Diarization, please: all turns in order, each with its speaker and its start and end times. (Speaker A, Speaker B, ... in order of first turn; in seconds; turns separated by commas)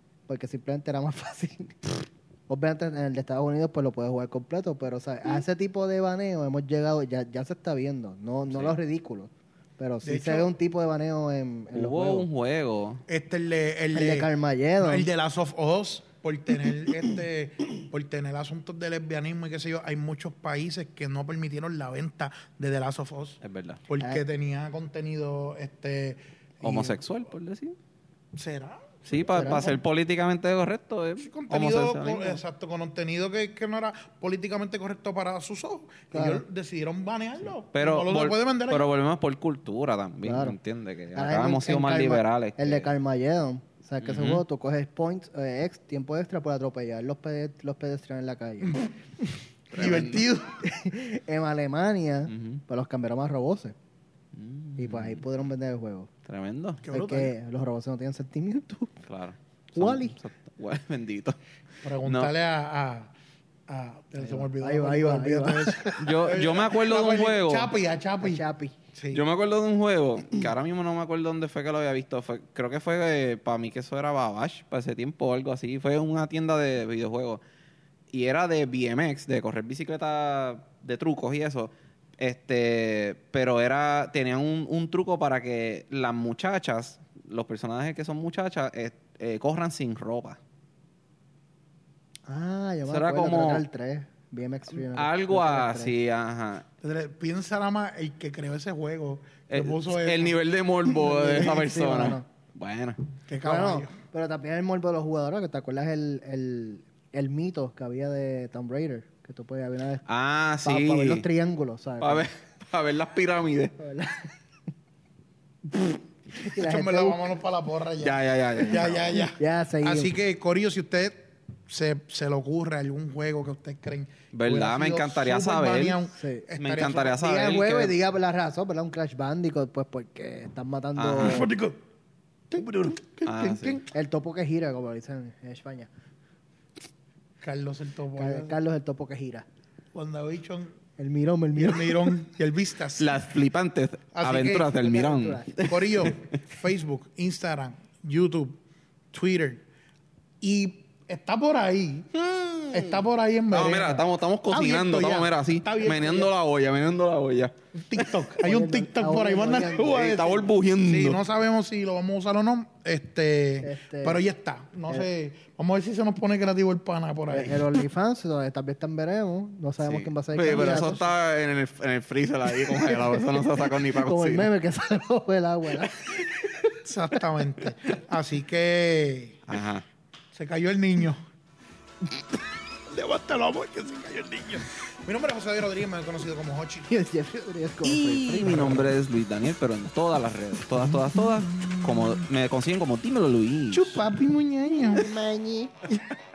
Speaker A: 0.3-12.3, Speaker B: 8.5-8.8, Speaker C: 10.0-10.5, Speaker B: 11.7-13.0, Speaker C: 13.1-27.0, Speaker A: 13.9-15.1, Speaker B: 23.4-23.8, Speaker B: 26.6-27.8, Speaker C: 28.4-29.8, Speaker B: 29.1-32.4, Speaker A: 29.3-29.7, Speaker C: 31.2-38.9, Speaker A: 36.1-36.4, Speaker B: 37.7-42.9, Speaker A: 40.2-40.6, Speaker A: 41.1-49.2, Speaker B: 44.0-44.4, Speaker B: 49.7-50.2, Speaker C: 49.7-50.6, Speaker A: 50.6-53.8, Speaker B: 52.3-52.6, Speaker B: 54.3-55.2, Speaker A: 54.8-56.1, Speaker B: 56.2-56.8, Speaker C: 56.8-57.3, Speaker A: 56.9-58.9, Speaker B: 59.1-61.4, Speaker A: 59.7-60.1, Speaker C: 61.8-63.1, Speaker B: 62.0-62.3, Speaker C: 63.7-68.4, Speaker A: 64.4-66.3, Speaker B: 66.0-67.7, Speaker A: 68.2-68.8, Speaker C: 68.9-69.2, Speaker B: 69.1-77.4, Speaker B: 78.1-90.4, Speaker A: 92.3-95.9, Speaker B: 92.9-93.6, Speaker B: 94.7-96.7, Speaker C: 96.8-100.3, Speaker B: 99.5-103.0, Speaker A: 100.9-102.2, Speaker C: 103.3-104.0, Speaker A: 103.4-110.0, Speaker B: 110.1-111.2, Speaker A: 110.6-112.2, Speaker B: 112.0-113.7, Speaker A: 113.8-114.3, Speaker A: 116.4-117.3, Speaker C: 116.4-127.2, Speaker B: 118.0-119.2, Speaker A: 118.9-120.1, Speaker B: 124.3-126.0, Speaker A: 126.1-126.5, Speaker B: 126.6-128.0, Speaker A: 127.1-131.5, Speaker B: 131.0-131.5, Speaker C: 131.2-131.8, Speaker C: 132.5-133.9, Speaker B: 133.2-133.8, Speaker A: 133.9-135.9, Speaker C: 137.4-138.6, Speaker A: 138.2-139.4, Speaker C: 139.9-140.8, Speaker A: 141.0-142.1, Speaker C: 141.6-143.2, Speaker B: 143.0-146.2, Speaker C: 144.1-144.7, Speaker A: 144.7-145.6, Speaker C: 145.6-148.6, Speaker C: 149.1-149.6, Speaker C: 150.4-152.1, Speaker B: 152.1-158.0, Speaker C: 152.7-156.3, Speaker C: 157.7-167.7, Speaker A: 158.4-160.3, Speaker B: 159.8-161.2, Speaker A: 163.6-164.2, Speaker A: 167.3-171.1, Speaker B: 169.8-174.5, Speaker A: 172.5-177.2, Speaker C: 176.7-179.4, Speaker B: 179.5-179.8, Speaker C: 180.3-181.2, Speaker C: 182.9-186.9, Speaker A: 186.9-188.8, Speaker B: 187.8-194.0, Speaker C: 188.3-188.9, Speaker C: 190.8-192.2, Speaker C: 193.7-195.1, Speaker A: 194.7-195.7